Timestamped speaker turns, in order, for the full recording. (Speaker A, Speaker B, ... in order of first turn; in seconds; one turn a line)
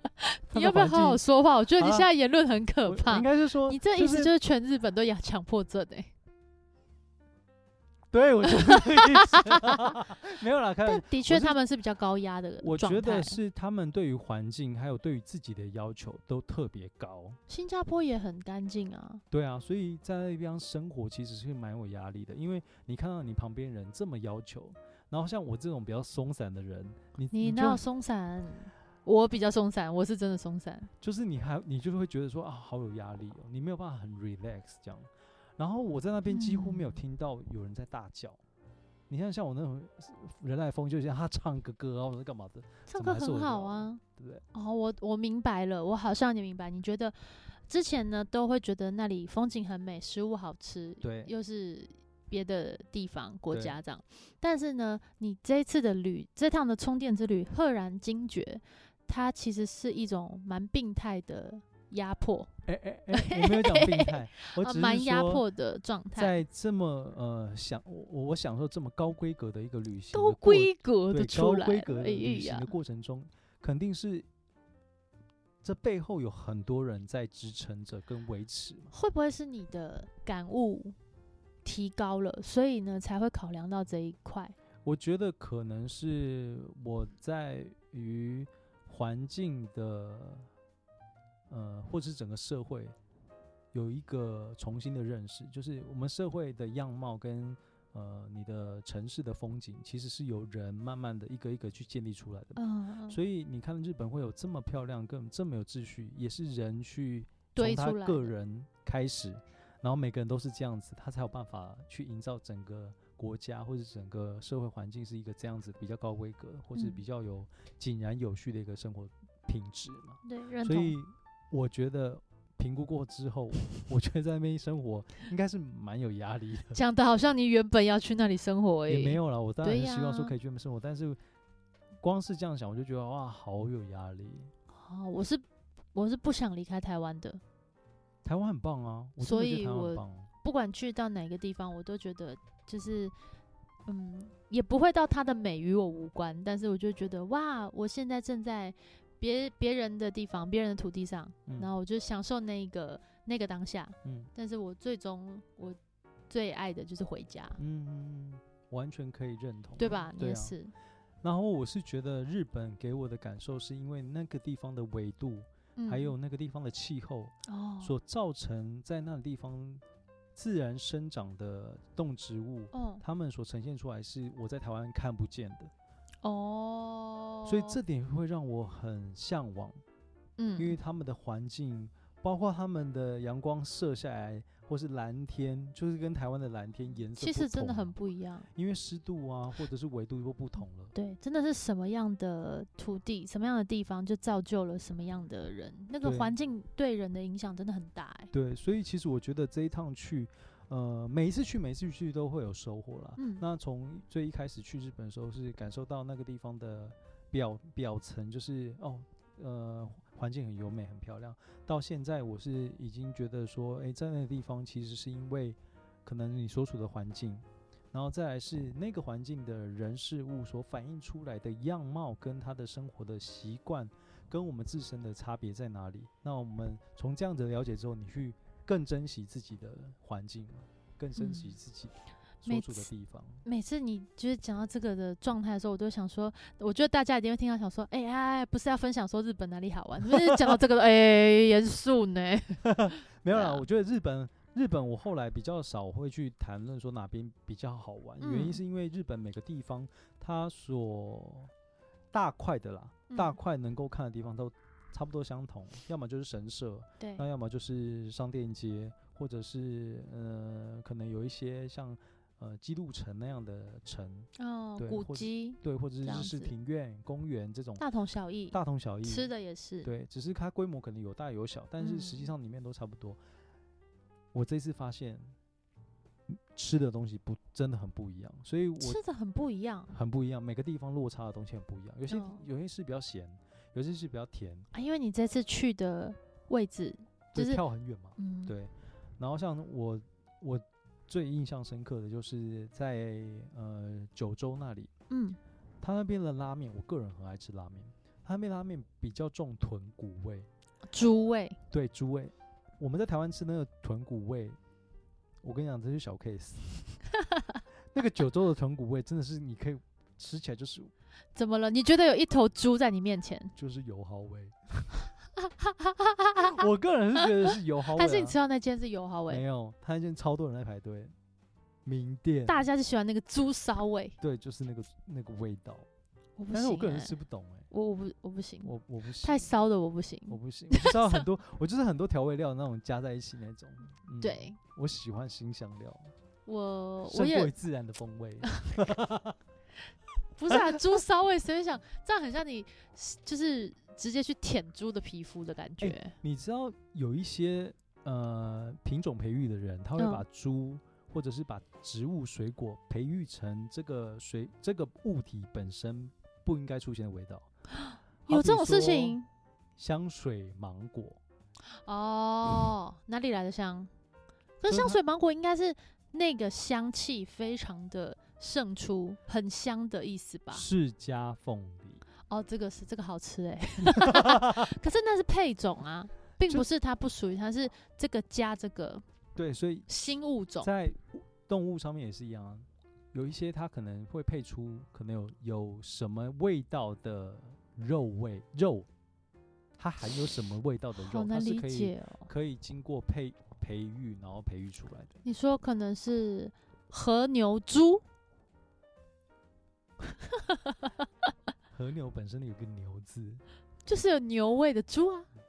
Speaker A: 0.2-6.1
Speaker B: 0.5-1.2
Speaker B: 1.8-2.1
Speaker B: 2.8-4.3
Speaker B: 8.1-11.6
Speaker A: 8.5-9.9
Speaker A: 10.8-13.4
Speaker B: 12.6-17.4
Speaker A: 17.5-19.2
Speaker B: 19.3-27.8
Speaker A: 27.3-30.9
Speaker B: 31.0-38.4
Speaker A: 36.3-37.0
Speaker B: 39.1-44.4
Speaker A: 42.9-44.0
Speaker A: 44.5-62.5
Speaker B: 51.0-51.3
Speaker B: 53.5-53.8
Speaker B: 62.6-65.5
Speaker A: 63.1-66.4
Speaker B: 66.1-74.2
Speaker A: 70.1-72.7
Speaker B: 75.6-78.9
Speaker A: 78.9-81.0
Speaker A: 81.6-84.5
Speaker B: 84.8-90.5
Speaker B: 91.5-92.9
Speaker B: 93.7-126.8
Speaker A: 102.5-103.2
Speaker A: 107.5-108.3
Speaker A: 116.7-117.0
Speaker A: 120.2-121.0
Speaker A: 126.7-130.3
Speaker B: 128.9-131.2
Speaker B: 132.0-134.5
Speaker A: 134.7-137.4
Speaker B: 138.2-140.3
Speaker A: 139.2-143.1
Speaker A: 143.9-155.8
Speaker B: 151.4-151.7
Speaker B: 154.0-154.3
Speaker A: 156.3-157.6
Speaker B: 157.6-160.6
Speaker A: 159.8-160.7
Speaker B: 161.2-169.8
Speaker A: 165.8-166.1
Speaker A: 167.4-167.9
Speaker B: 170.3-175.7
Speaker A: 172.7-173.0
Speaker A: 176.2-177.8
Speaker B: 177.4-179.8
Speaker A: 180.4-180.8
Speaker B: 180.6-188.0
Speaker A: 187.2-188.5
Speaker B: 188.5-190.9
Speaker A: 190.9-198.3
Speaker B: 196.0-196.3
Speaker B: 198.3-233.4
Speaker A: 203.2-203.4
Speaker A: 231.2-231.5
Speaker A: 232.4-232.9
Speaker A: 233.4-242.6
Speaker B: 240.0-240.6
Speaker B: 242.6-251.5
Speaker A: 243.3-243.7
Speaker A: 248.2-248.6
Speaker B: 252.1-267.8
Speaker A: 253.1-253.4
Speaker A: 257.0-257.3
Speaker A: 264.4-266.5
Speaker A: 267.8-269.9
Speaker B: 268.5-269.3
Speaker B: 269.8-273.2
Speaker A: 271.8-272.3
Speaker B: 274.3-275.3
Speaker B: 276.3-279.0
Speaker A: 278.8-280.0
Speaker B: 279.9-284.7
Speaker A: 282.1-282.4
Speaker A: 284.7-287.6
Speaker B: 287.3-294.9
Speaker A: 288.2-288.6
Speaker A: 295.1-295.4
Speaker B: 295.8-300.5
Speaker A: 300.9-301.6
Speaker B: 301.7-304.6
Speaker B: 305.4-306.9
Speaker A: 307.2-307.6
Speaker B: 307.9-310.9
Speaker A: 311.3-313.5
Speaker B: 313.6-315.1
Speaker A: 315.4-316.6
Speaker B: 316.4-318.4
Speaker A: 317.2-319.4
Speaker B: 319.3-321.1
Speaker B: 321.8-322.7
Speaker A: 322.4-324.2
Speaker B: 324.2-325.9
Speaker A: 326.4-327.2
Speaker B: 326.5-327.7
Speaker A: 327.7-331.2
Speaker B: 328.6-329.5
Speaker B: 330.3-336.1
Speaker A: 334.2-334.6
Speaker A: 336.4-337.5
Speaker B: 337.1-339.4
Speaker A: 338.5-338.8
Speaker A: 340.4-346.1
Speaker B: 340.5-340.8
Speaker B: 345.8-357.5
Speaker A: 350.0-350.2
Speaker A: 357.8-359.3
Speaker B: 358.3-359.2
Speaker B: 359.8-361.2
Speaker A: 361.7-363.9
Speaker A: 364.6-370.6
Speaker B: 364.6-365.0
Speaker B: 370.5-372.0
Speaker A: 372.3-379.0
Speaker B: 374.0-374.7
Speaker B: 379.4-380.0
Speaker A: 379.9-380.7
Speaker B: 380.6-388.9
Speaker B: 389.8-395.2
Speaker A: 391.0-392.3
Speaker A: 395.2-398.0
Speaker A: 400.1-401.0
Speaker B: 401.7-403.4
Speaker A: 403.9-405.3